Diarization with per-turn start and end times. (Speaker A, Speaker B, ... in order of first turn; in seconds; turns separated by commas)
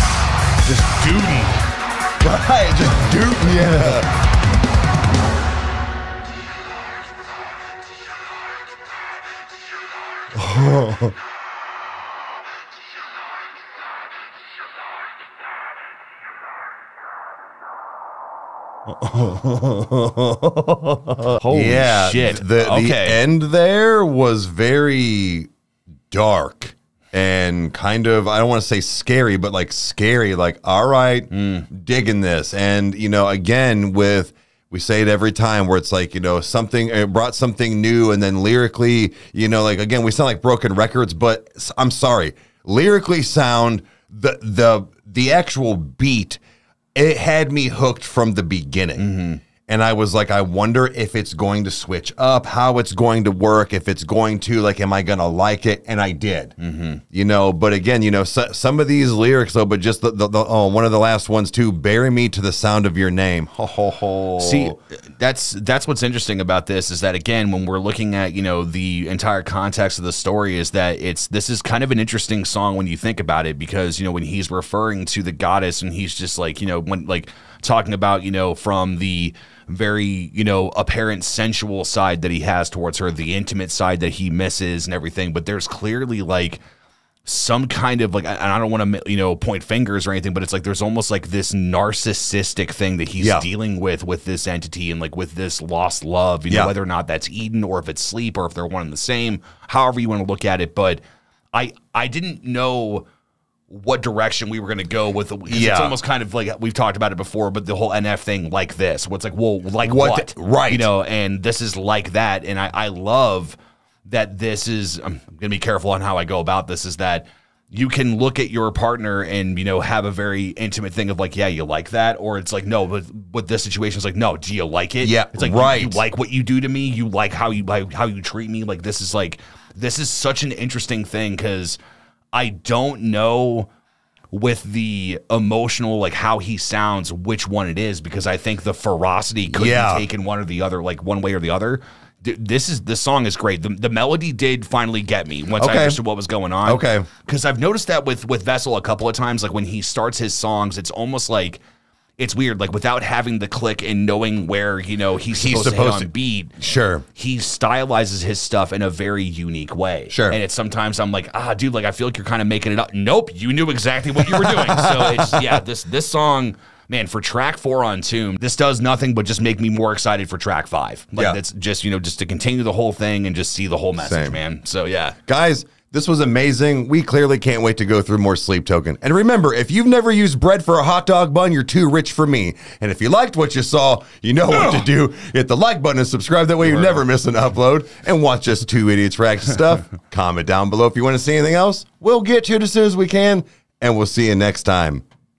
Speaker A: 0.6-1.6, Speaker B: 2.2-4.1, Speaker B: 10.3-11.2, Speaker B: 19.0-25.5, Speaker A: 21.2-23.2, Speaker B: 26.1-46.4, Speaker A: 31.3-31.7, Speaker B: 46.9-49.1, Speaker A: 49.0-49.4, Speaker B: 49.7-56.5, Speaker A: 56.6-57.0, Speaker B: 57.1-64.8, Speaker A: 64.4-86.6, Speaker A: 87.2-101.0, Speaker B: 93.2-93.5, Speaker B: 96.5-96.7, Speaker A: 101.5-103.1, Speaker A: 103.7-131.8, Speaker B: 105.5-106.0, Speaker B: 109.8-110.9, Speaker B: 125.0-126.0, Speaker A: 132.3-133.7, Speaker A: 134.3-151.6, Speaker B: 139.5-140.1, Speaker B: 145.6-146.0, Speaker B: 146.7-147.1, Speaker A: 152.2-156.5, Speaker B: 155.3-157.1, Speaker A: 157.2-175.2, Speaker B: 160.1-160.4, Speaker B: 164.3-165.5, Speaker B: 174.0-174.4, Speaker B: 175.3-195.0, Speaker A: 184.5-184.9, Speaker A: 186.7-187.0